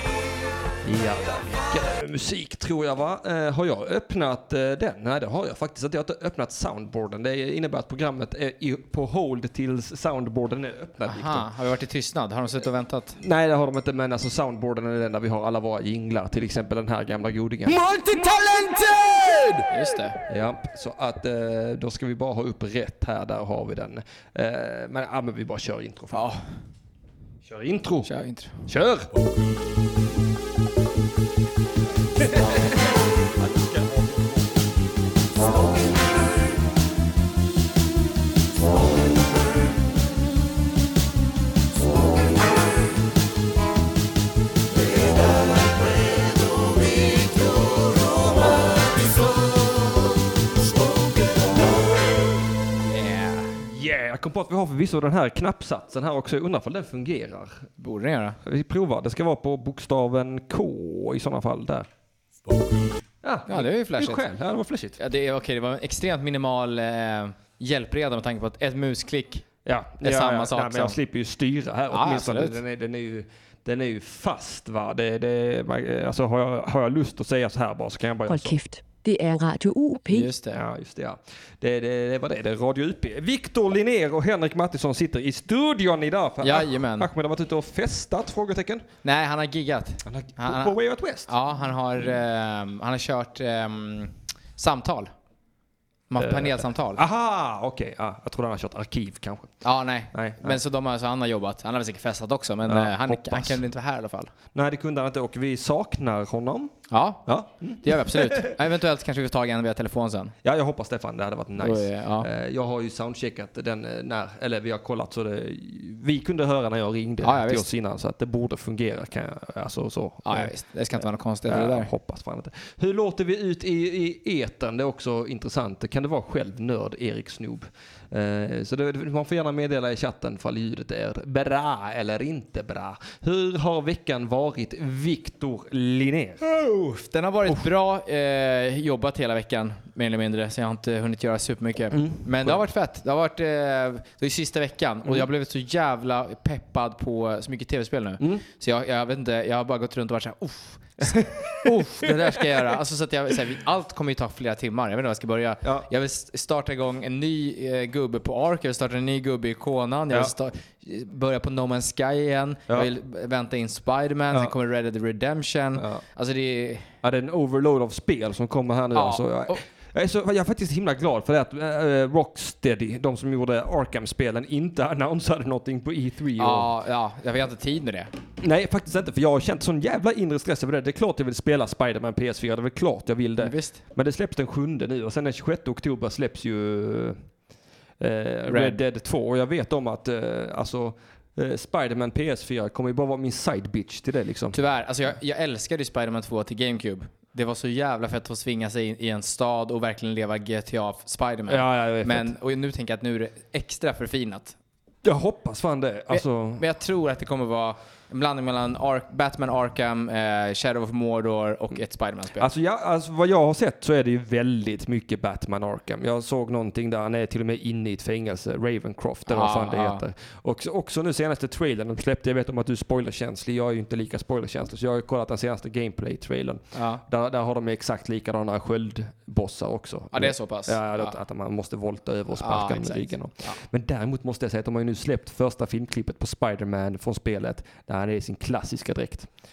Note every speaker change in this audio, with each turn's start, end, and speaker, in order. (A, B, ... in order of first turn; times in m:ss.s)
0:00.8-0:11.5 A
0:11.0-0:13.2 B
0:13.2-0:19.6 A
0:19.7-0:20.2 B
0:20.3-0:26.3 A
0:26.1-0:26.4 B
0:27.4-0:28.1 A
0:28.0-0:28.6 B
0:28.7-0:29.1 A
0:33.4-0:34.0 A
0:52.8-0:53.6 B
0:53.6-0:57.7 A
0:57.8-0:58.4 B
0:58.4-1:01.9 A
1:03.2-1:05.0 A
1:03.5-1:04.2 B
1:05.0-1:09.4 B
1:09.6-1:18.6 A
1:10.0-1:11.0 B
1:11.9-1:12.6 B
1:18.3-1:20.3 C
1:20.1-1:20.6 B
1:20.6-1:28.9 A
1:26.4-1:27.1 B
1:29.0-1:30.8 B
1:30.0-1:31.3 A
1:31.3-1:35.1 B
1:36.1-1:37.0 B
1:36.2-1:39.6 A
1:39.6-1:44.3 B
1:40.1-1:40.6 A
1:42.7-1:43.6 A
1:44.5-1:48.6 A
1:46.9-1:47.2 B
1:47.8-1:50.4 B
1:50.4-2:00.5 A
1:51.6-1:52.3 B
1:57.2-1:57.7 B
2:00.2-2:01.9 B
2:01.5-2:16.4 A
2:16.4-2:46.9 B
2:21.9-2:22.6 A
2:31.1-2:32.4 A
2:45.8-2:46.0 A
2:47.0-2:56.7 A
2:48.9-2:49.6 B
2:56.4-2:58.1 B
2:58.4-3:07.2 A
3:03.4-3:03.8 B
3:08.0-3:14.6 A
3:08.5-3:08.8 B
3:14.5-3:24.6 B
3:21.5-3:22.3 A
3:25.0-3:26.6 A
3:26.1-3:32.5 B
3:32.4-3:59.3 A
3:39.3-3:40.0 B
3:46.7-3:47.0 B
3:50.1-3:51.2 B
3:52.3-3:53.6 B